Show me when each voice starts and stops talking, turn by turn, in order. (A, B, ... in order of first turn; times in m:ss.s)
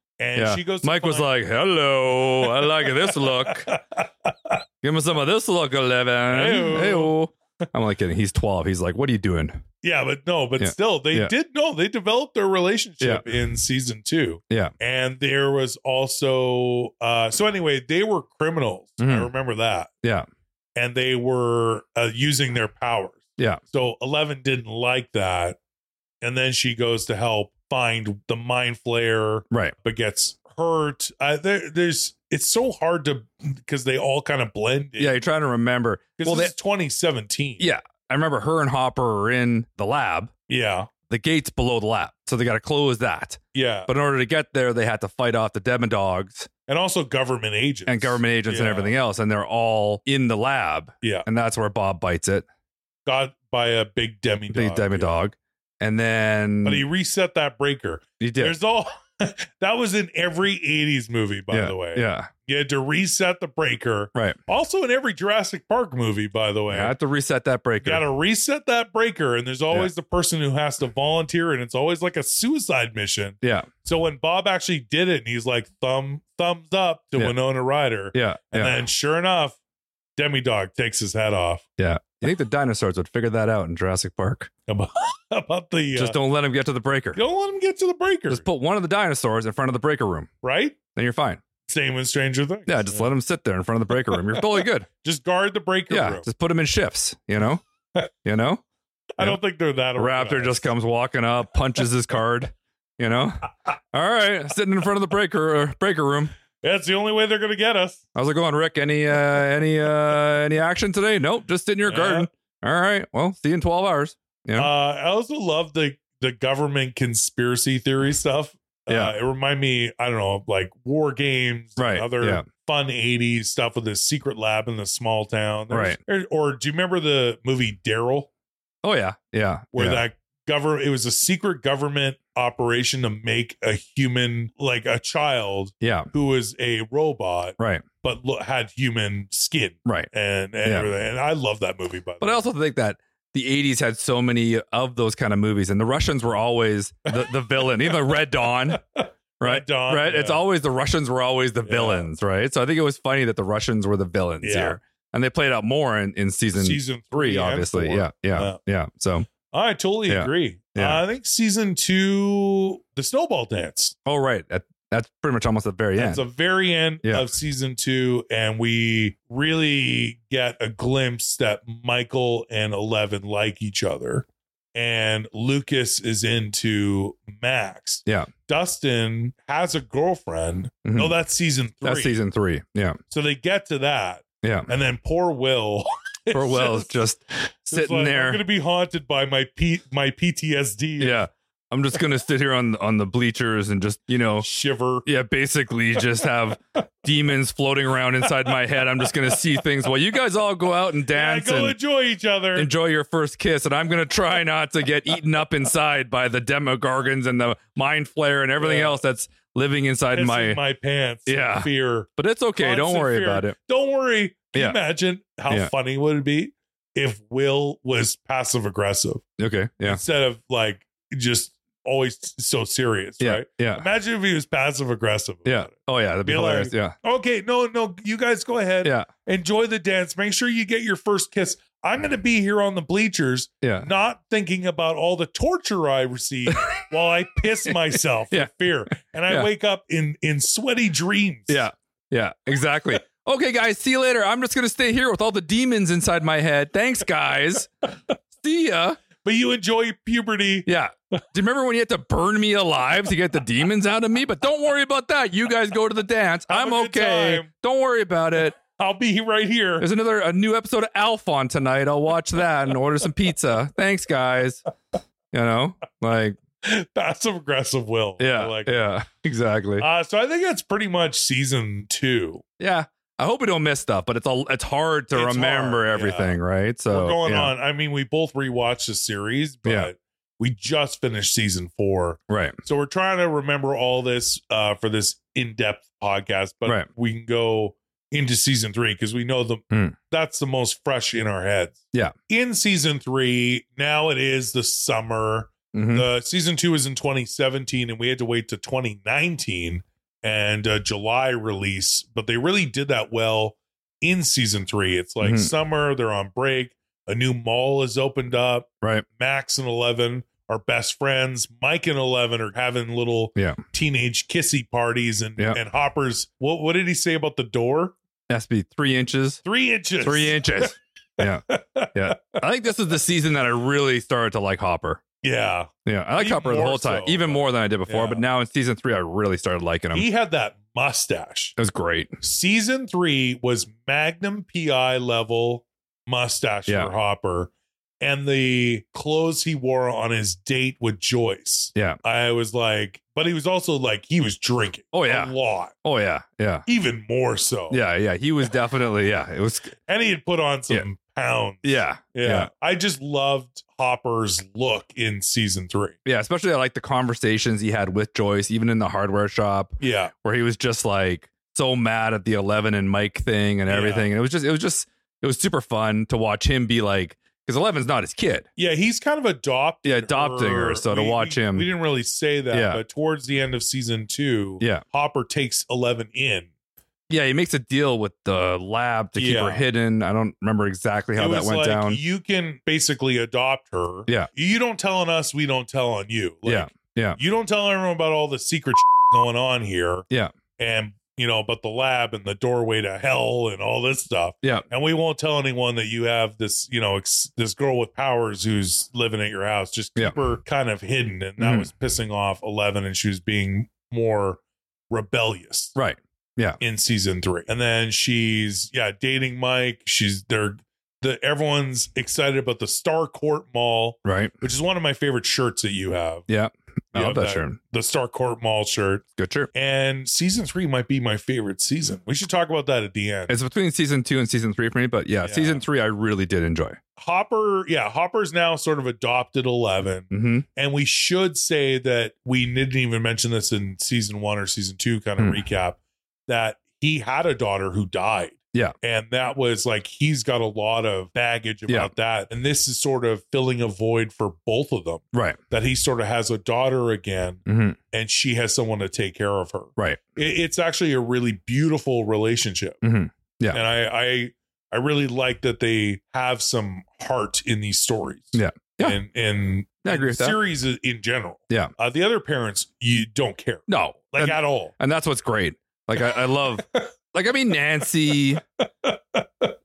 0:00.2-0:01.3 A
0:00.4-0:03.7 B
0:02.4-0:04.6 A
0:04.8-0:09.6 B
0:06.3-0:07.2 A
0:09.8-0:19.9 A
0:10.6-0:11.3 B
0:19.0-0:19.3 B
0:20.8-0:25.6 A
0:26.2-0:35.2 A
0:29.5-0:29.8 B
0:35.0-0:36.5 B
0:36.2-0:37.7 A
0:37.6-0:40.3 B
0:40.5-0:40.9 A
0:41.1-0:46.5 B
0:43.5-0:43.9 A
0:46.7-0:49.0 A
0:47.9-0:52.4 B
0:51.0-0:51.3 A
0:53.1-0:55.2 A
0:54.5-0:56.8 B
0:56.6-1:06.9 A
0:58.2-0:58.6 B
1:01.5-1:02.3 B
1:06.7-1:08.0 B
1:07.8-1:19.6 A
1:13.4-1:13.7 B
1:18.1-1:18.8 B
1:20.2-1:21.6 A
1:21.8-1:24.5 B
1:24.7-1:26.2 A
1:26.0-1:27.2 B
1:27.2-1:28.5 A
1:28.3-1:30.3 B
1:30.4-1:30.8 A
1:31.0-1:31.4 B
1:31.7-1:33.1 A
1:32.7-1:34.9 B
1:34.1-1:36.3 A
1:35.9-1:37.6 B
1:38.2-1:38.6 B
1:39.2-1:40.7 A
1:40.0-1:46.3 B
1:46.6-1:48.0 A
1:48.2-1:54.7 B
1:51.9-1:52.3 A
1:54.6-2:08.3 A
1:58.9-1:59.2 B
2:01.8-2:02.4 B
2:05.7-2:06.0 B
2:08.8-2:10.0 B
2:09.7-2:22.5 A
2:15.8-2:16.1 B
2:17.6-2:17.8 B
2:20.6-2:20.9 B
2:22.2-2:28.8 B
2:27.1-2:30.4 A
2:29.4-2:39.3 B
2:31.6-2:32.1 A
2:34.4-2:34.8 A
2:36.5-2:38.6 A
2:39.5-2:44.0 A
2:40.1-2:41.0 B
2:44.1-2:46.2 B
2:46.0-3:02.2 A
3:00.8-3:01.2 B
3:01.8-3:03.0 B
3:03.1-3:07.0 A
3:04.4-3:04.7 B
3:06.3-3:08.4 B
3:07.7-3:11.2 A
3:11.0-3:14.5 B
3:14.4-3:15.1 A
3:15.0-3:21.8 B
3:18.2-3:19.6 A
3:21.1-3:22.7 A
3:22.6-3:30.6 B
3:28.6-3:29.0 A
3:30.1-3:39.2 A
3:31.3-3:33.6 B
3:39.4-3:40.0 B
3:39.8-3:45.7 A
3:43.2-3:43.8 B
3:45.4-3:47.0 B
3:46.2-4:01.6 A
3:53.6-3:53.9 B
3:56.5-3:56.8 B
4:01.5-4:07.9 B
4:08.4-4:09.0 B
4:09.2-4:10.7 A
4:10.7-4:18.6 B
4:16.5-4:17.5 A
4:18.7-4:19.9 A
4:19.8-4:24.6 B
4:25.3-4:26.4 B
4:26.6-4:28.8 A
4:28.2-4:29.9 B
4:29.8-4:32.4 A
4:32.6-4:37.5 B
4:35.1-4:36.4 A
4:36.9-5:18.0 A
4:42.3-4:42.6 B
4:55.7-4:56.1 B
5:05.2-5:05.5 B
5:18.3-5:19.4 B
5:19.4-5:20.7 A
5:20.0-5:25.0 B
5:21.5-5:22.4 A
5:25.2-5:28.2 A
5:25.9-5:30.1 B
5:29.9-5:31.6 A
5:31.6-5:32.1 B
5:32.2-5:45.7 A
5:44.9-5:45.3 B
5:45.8-5:46.7 B
5:46.7-5:47.8 A
5:47.7-5:49.8 B
5:49.9-5:56.0 A
5:51.6-5:52.5 B
5:56.0-6:08.4 B
5:59.8-6:00.1 A
6:03.7-6:04.1 A
6:08.6-6:16.5 A
6:09.8-6:11.7 B
6:12.5-6:12.8 B
6:17.1-6:22.0 B
6:19.2-6:19.7 A
6:21.2-6:30.1 A
6:26.5-6:27.2 B
6:30.6-6:45.8 A
6:41.4-6:41.7 B
6:45.8-6:46.6 B
6:46.6-6:56.3 A
6:54.0-6:54.3 B
6:56.3-6:57.6 B
6:56.9-7:03.4 A
6:59.2-6:59.5 B
7:03.3-7:06.8 B
7:05.2-7:05.6 A
7:07.0-7:32.8 A
7:10.1-7:10.4 B
7:25.1-7:25.4 B
7:27.5-7:27.8 B
7:32.8-7:33.6 B
7:33.5-7:44.7 A
7:38.3-7:39.0 B
7:39.8-7:40.4 B
7:43.7-7:48.4 B
7:48.6-7:49.5 A